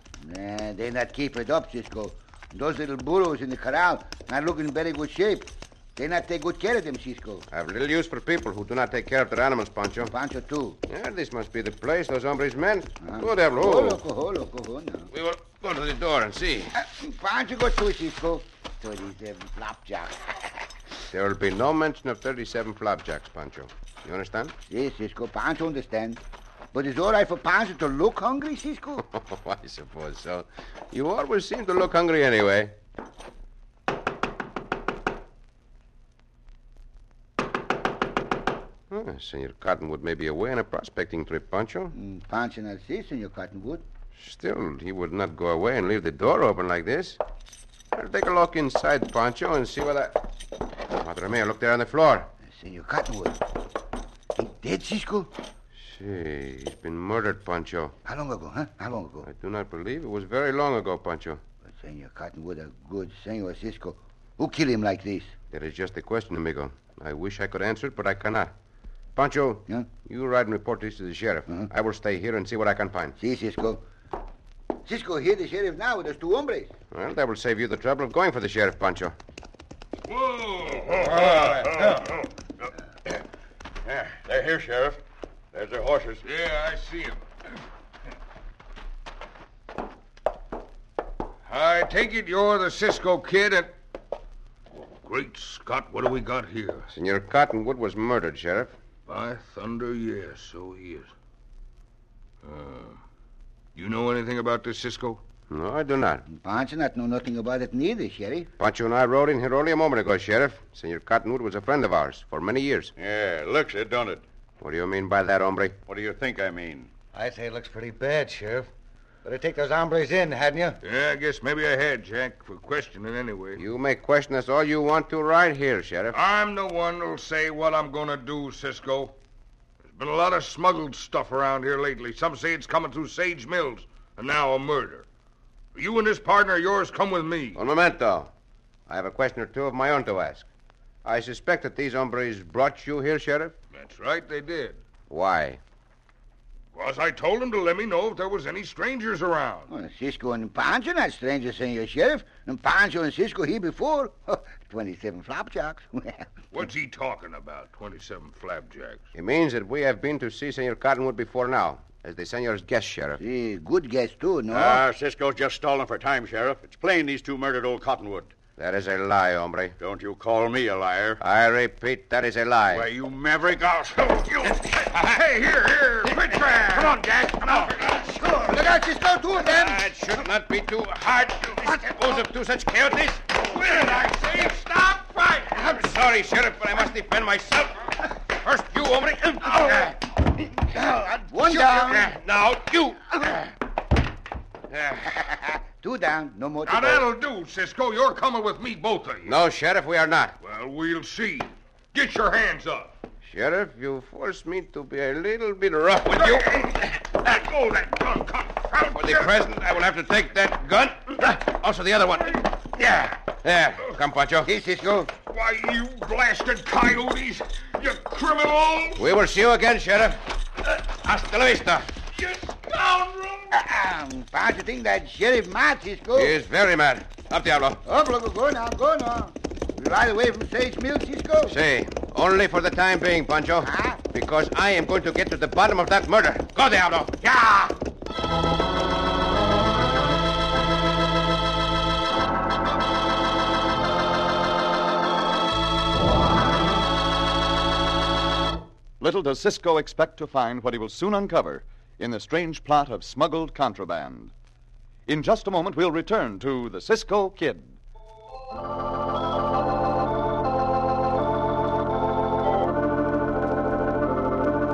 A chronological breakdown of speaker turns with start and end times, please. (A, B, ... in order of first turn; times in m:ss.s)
0:00.2-0:07.5 A
0:07.5-0:10.1 B
0:10.0-0:10.8 A
0:10.9-0:14.0 B
0:13.0-0:15.1 A
0:15.1-0:16.7 B
0:16.7-0:20.6 A
0:21.1-0:24.5 B
0:24.7-0:26.2 A
0:26.7-0:29.0 A
0:29.1-0:32.8 B
0:38.9-0:41.9 B
0:41.9-0:43.8 A
0:44.1-0:47.2 B
0:47.9-0:50.2 B
0:50.9-0:52.3 B
0:52.4-0:53.4 A
0:54.3-0:55.3 A
0:55.8-0:57.9 B
0:58.0-0:59.3 A
0:59.2-1:01.4 B
1:01.7-1:05.3 A
1:05.5-1:08.5 B
1:09.1-1:13.2 B
1:13.2-1:13.8 A
1:14.8-1:16.7 A
1:16.9-1:19.1 B
1:20.1-1:22.2 C
1:21.2-1:22.0 D
1:23.8-1:25.0 D
1:25.5-1:26.2 D
1:26.2-1:27.2 C
1:31.4-1:33.7 C
1:35.0-1:36.9 C
1:36.9-1:38.7 B
1:39.1-1:41.1 C
1:42.4-1:43.0 C
1:43.7-1:45.2 C
1:45.5-1:46.2 B
1:46.3-1:48.5 A
1:48.6-1:52.9 B
1:53.0-1:54.2 D
1:54.6-1:55.8 B
1:55.9-1:56.9 D
1:57.1-1:58.7 E
1:59.2-2:00.8 E
2:00.8-2:03.6 C
2:03.6-2:06.2 B
2:06.1-2:09.2 C
2:09.9-2:15.0 C
2:15.7-2:17.6 C
2:17.6-2:18.3 B
2:18.9-2:20.4 B
2:21.0-2:23.5 B
2:23.7-2:24.8 C
2:25.1-2:25.6 B
2:26.7-2:29.7 C
2:29.7-2:36.3 A
2:36.5-2:39.0 C
2:39.1-2:43.2 B
2:43.2-2:44.8 A
2:44.5-2:48.3 D
2:48.6-2:49.8 B
2:49.8-2:51.2 D
2:51.2-2:52.9 B
2:52.7-2:54.6 D
2:54.5-2:58.1 C
2:56.2-2:57.0 B
2:58.4-2:59.8 A
2:59.3-3:03.4 B
3:03.4-3:05.6 C
3:05.4-3:10.0 B
3:10.6-3:12.1 A
3:11.4-3:13.5 B
3:14.7-3:15.4 B
3:15.3-3:17.0 A
3:16.6-3:19.4 C
3:19.2-3:20.4 B
3:20.4-3:22.9 C
3:23.2-3:26.6 B
3:26.1-3:29.5 C
3:28.9-3:34.5 B
3:34.4-3:35.1 A
3:35.3-3:39.1 C
3:39.0-3:41.9 B
3:42.2-3:43.5 C
3:43.5-3:46.3 A
3:46.1-3:47.8 B
3:47.8-3:51.6 A
3:51.5-3:57.6 B
3:53.6-3:54.0 A
4:09.0-4:14.3 F
4:15.1-4:17.8 F